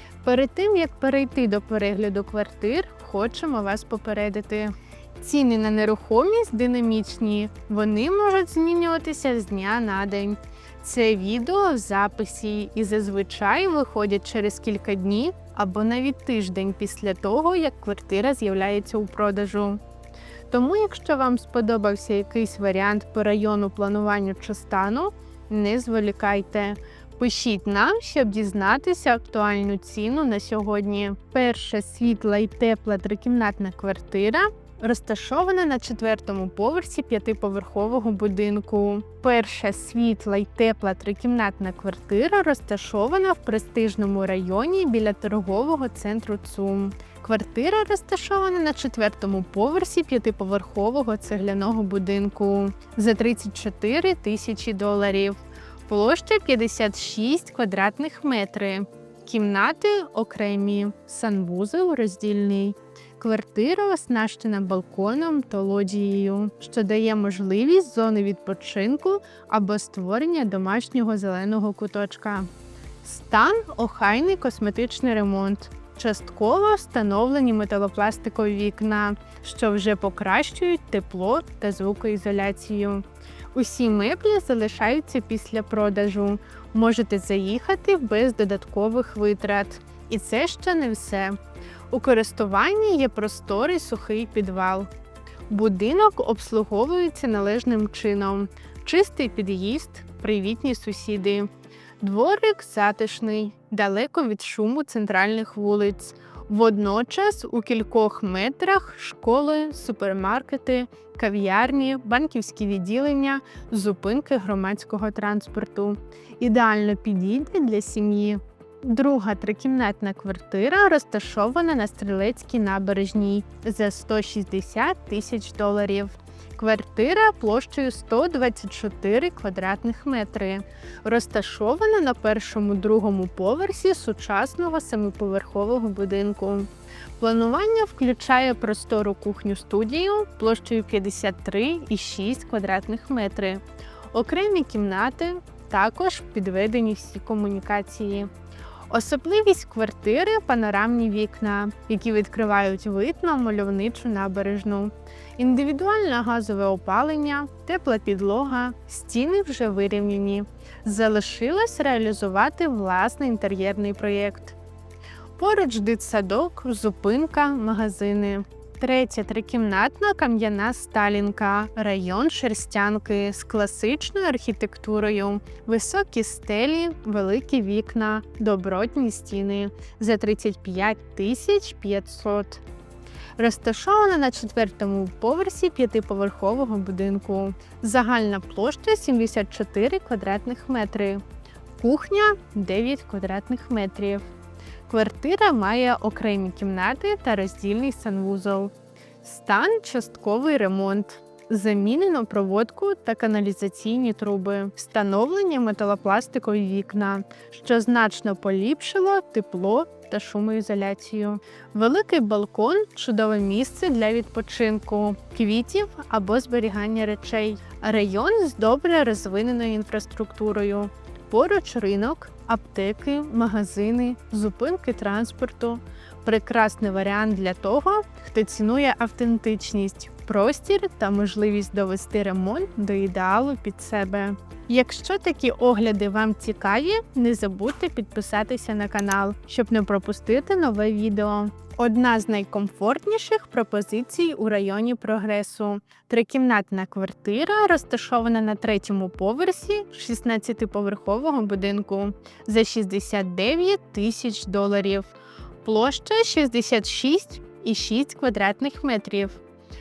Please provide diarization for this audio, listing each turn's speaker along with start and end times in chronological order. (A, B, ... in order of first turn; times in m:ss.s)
0:00.2-0:19.8 A
0:20.5-1:12.5 A
1:13.0-1:31.4 A
1:31.9-1:34.9 A
1:35.5-1:41.5 A
1:42.0-2:28.3 A
2:28.9-2:44.6 A
2:45.4-3:02.6 A
3:03.4-3:11.2 A
3:11.8-3:14.3 A
3:14.9-4:19.4 A